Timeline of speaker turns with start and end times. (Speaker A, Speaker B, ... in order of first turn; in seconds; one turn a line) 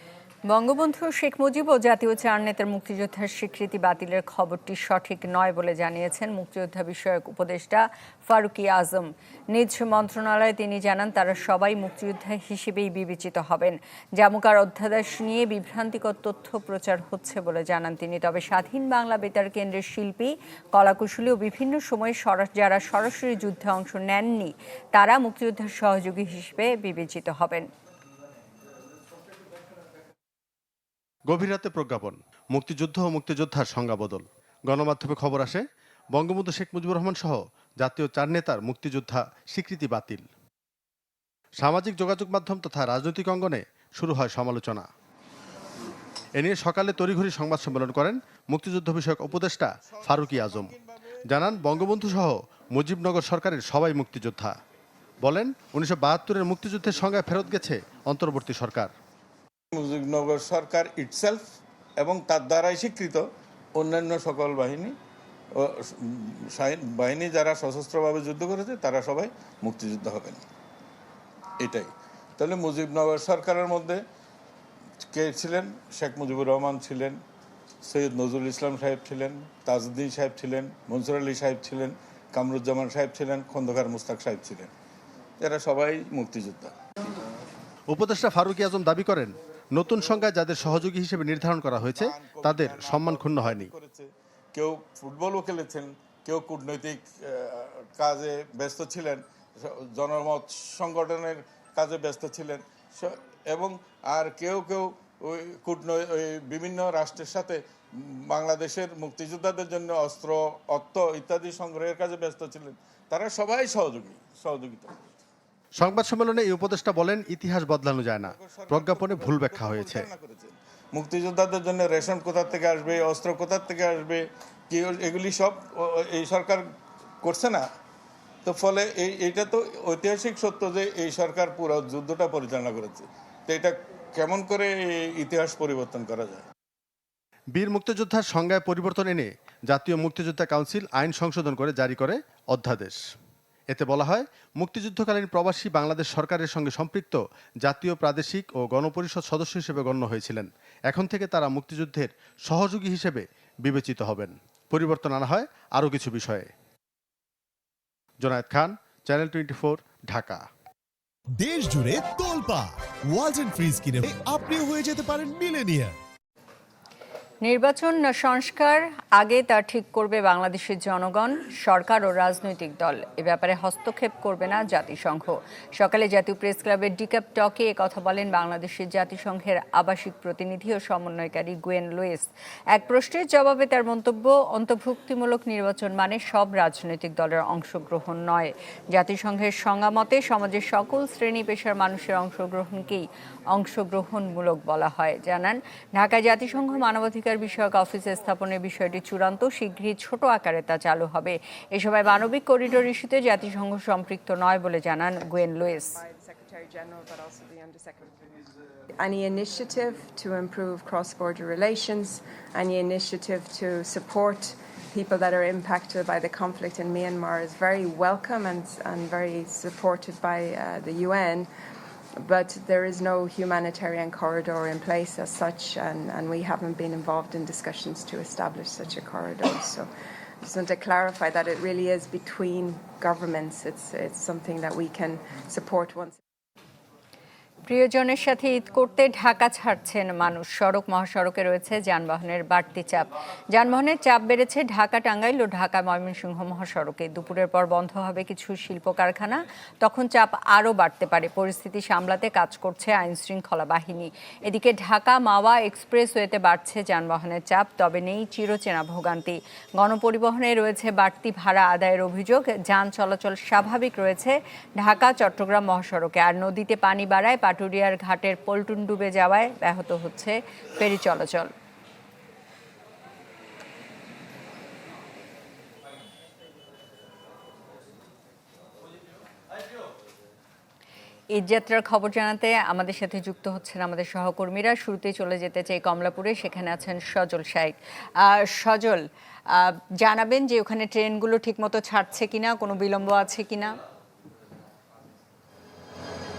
Speaker A: 0.5-27.7
Speaker B: 31.3-40.3
Speaker B: 41.6-44.9
Speaker B: 46.4-50.8
Speaker C: 49.9-52.1
Speaker B: 51.3-54.5
Speaker B: 55.2-58.9
Speaker C: 59.7-64.9
Speaker C: 65.5-70.4
Speaker C: 71.6-74.0
Speaker C: 75.1-77.2
Speaker C: 77.8-84.7
Speaker C: 85.4-86.8
Speaker B: 87.9-93.7
Speaker C: 91.9-115.1
Speaker B: 115.8-120.0
Speaker C: 118.2-126.7
Speaker C: 127.2-127.7
Speaker C: 128.4-136.4
Speaker B: 137.5-143.0
Speaker B: 143.7-156.5
Speaker B: 158.2-160.4
Speaker D: 161.4-165.9
Speaker A: 167.4-206.0
Speaker E: 205.8-208.1
Speaker E: 209.0-221.5
Speaker E: 222.2-229.9
Speaker E: 230.4-236.2
Speaker A: 237.7-271.5
Speaker A: 281.3-293.8